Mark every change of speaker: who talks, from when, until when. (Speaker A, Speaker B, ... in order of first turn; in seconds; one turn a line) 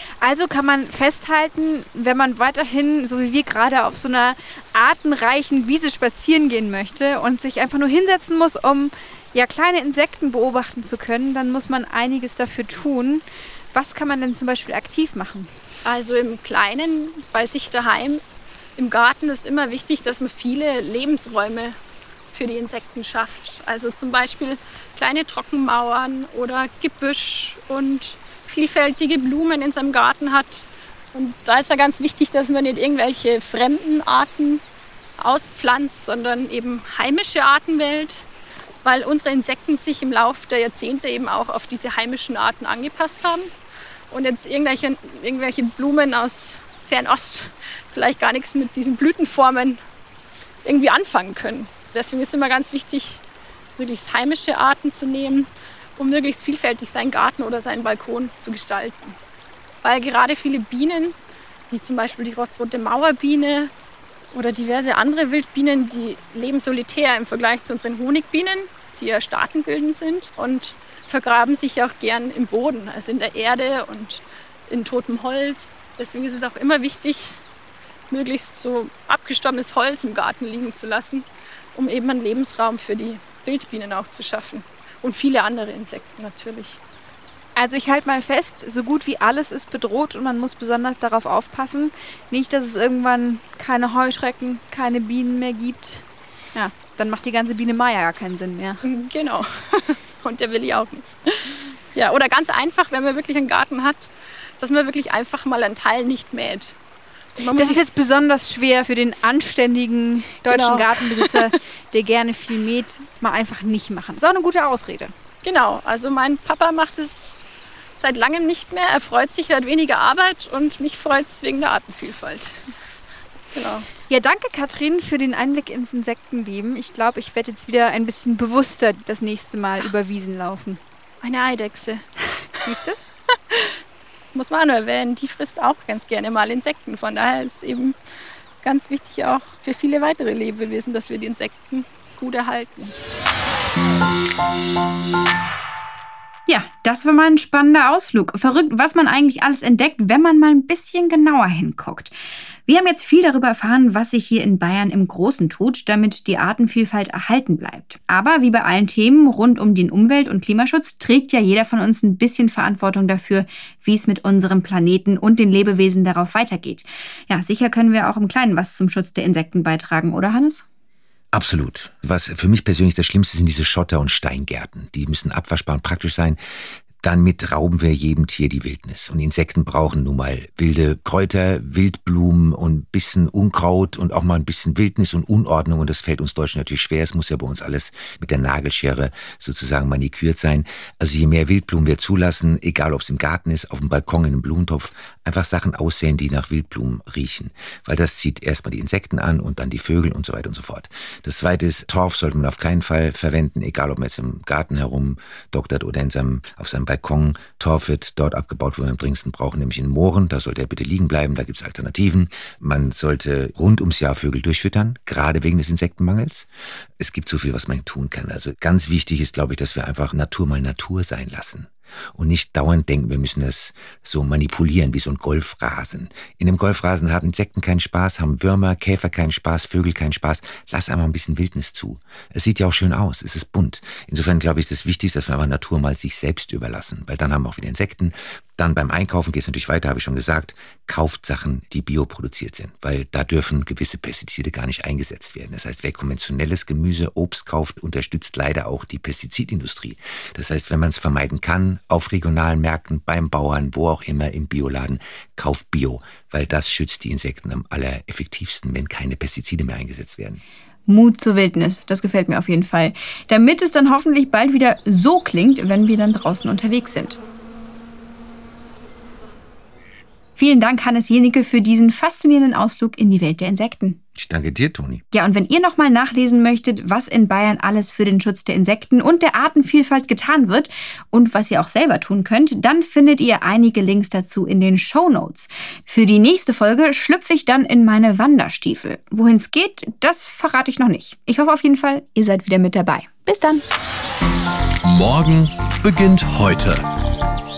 Speaker A: 0.2-15.5
Speaker B: 15.8-18.2
Speaker B: 18.8-21.8
Speaker B: 22.3-34.6
Speaker B: 35.2-38.3
Speaker B: 38.8-43.5
Speaker B: 44.1-49.8
Speaker B: 50.6-53.2
Speaker B: 53.8-59.2
Speaker B: 59.8-61.2
Speaker B: 61.7-63.7
Speaker B: 64.3-77.4
Speaker B: 78.1-86.8
Speaker A: 87.6-98.8
Speaker B: 98.8-106.8
Speaker B: 107.4-107.9
Speaker A: 107.5-115.1
Speaker B: 110.5-111.4
Speaker B: 115.4-117.4
Speaker B: 118.0-122.7
Speaker B: 123.5-123.9
Speaker A: 124.1-130.8
Speaker B: 131.2-132.1
Speaker A: 132.6-133.0
Speaker B: 133.5-133.8
Speaker B: 134.3-138.0
Speaker B: 138.6-142.9
Speaker C: 146.5-152.1
Speaker C: 152.7-170.6
Speaker D: 171.3-176.4
Speaker D: 177.0-216.5
Speaker D: 217.0-260.4
Speaker C: 260.9-267.2
Speaker C: 270.4-274.0
Speaker D: 274.2-275.0
Speaker C: 275.1-293.6
Speaker E: 294.8-296.9